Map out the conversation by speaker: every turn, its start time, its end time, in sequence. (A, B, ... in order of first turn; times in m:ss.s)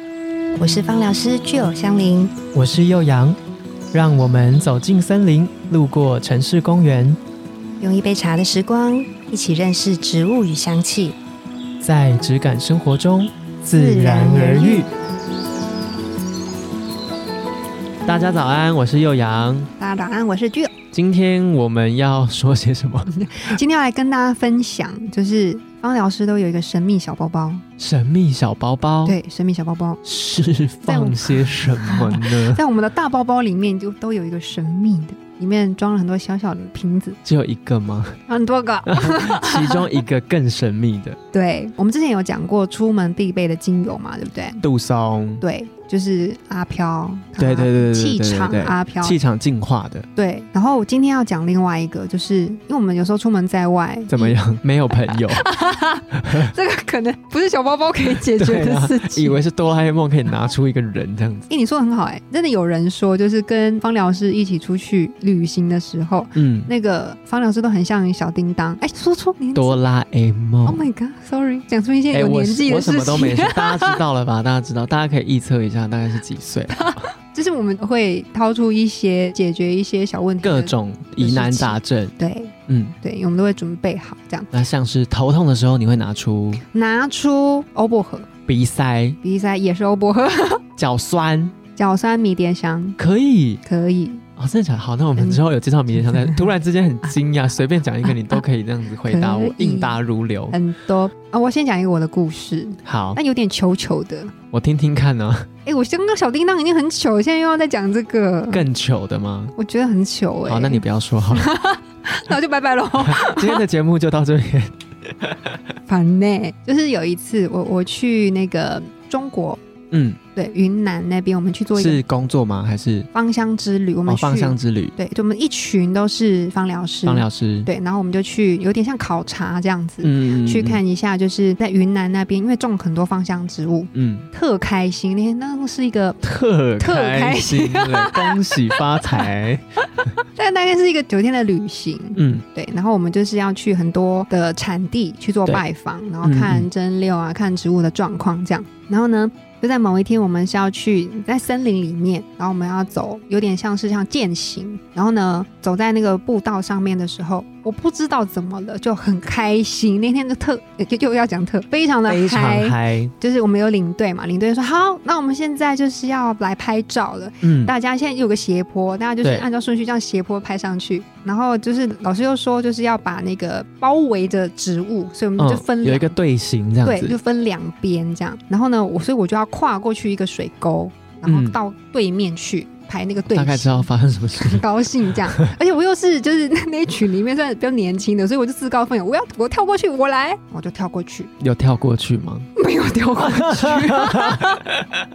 0:00.6-0:02.3 A
0:02.5-0:03.4 B
0:03.9-0:07.2 B
0:07.8-0:11.2 A
0:11.8-0:14.9 B
0:13.7-0:14.9 A
0:18.0-0:19.7 B
0:19.8-0:20.7 A
0:20.9-0:23.6 B
0:23.1-0:27.6 A
0:27.8-0:29.2 B
0:29.0-0:30.0 A
0:30.0-0:32.6 B
0:30.8-0:37.2 A
0:37.2-0:38.2 B
0:38.3-0:39.9 A
0:38.8-0:41.2 B
0:41.3-0:44.6 A
0:44.6-0:45.4 B
0:45.4-0:49.2 A
0:47.4-0:50.1 B
0:50.2-0:54.4 A
0:54.1-0:55.4 B
0:54.9-0:59.4 A
0:56.1-0:56.5 B
0:58.4-1:01.5 B
1:01.5-1:09.8 A
1:06.3-1:06.7 B
1:09.5-1:10.8 B
1:10.6-1:14.0 A
1:12.1-1:17.1 B
1:16.7-1:24.5 A
1:20.4-1:22.1 B
1:22.7-1:23.0 B
1:24.5-1:26.6 B
1:26.7-1:28.3 A
1:28.5-1:29.2 B
1:29.2-1:30.6 A
1:30.8-1:31.5 B
1:31.7-1:33.0 A
1:33.0-1:33.6 B
1:33.6-1:34.2 A
1:34.4-1:40.6 B
1:36.0-1:36.4 A
1:39.0-1:40.0 A
1:40.5-1:44.3 A
1:42.8-1:43.2 B
1:44.5-1:45.5 B
1:45.6-1:48.7 A
1:48.5-1:49.5 B
1:49.6-1:53.6 A
1:50.4-1:51.5 B
1:53.0-1:55.5 B
1:55.9-1:59.6 A
1:59.9-2:00.2 B
2:00.4-2:02.0 A
2:01.7-2:03.1 B
2:03.1-2:16.2 A
2:04.1-2:04.9 B
2:07.0-2:07.7 B
2:10.0-2:10.8 B
2:13.9-2:14.3 B
2:16.2-2:19.6 B
2:16.8-2:19.3 A
2:20.2-2:56.2 A
2:22.2-2:22.4 B
2:26.2-2:26.7 B
2:42.1-2:43.1 B
2:47.4-2:47.7 B
2:55.4-2:57.2 B
2:56.8-3:11.3 A
3:01.2-3:01.6 B
3:03.3-3:04.6 B
3:11.4-3:12.5 B
3:12.6-3:14.6 A
3:13.2-3:14.8 B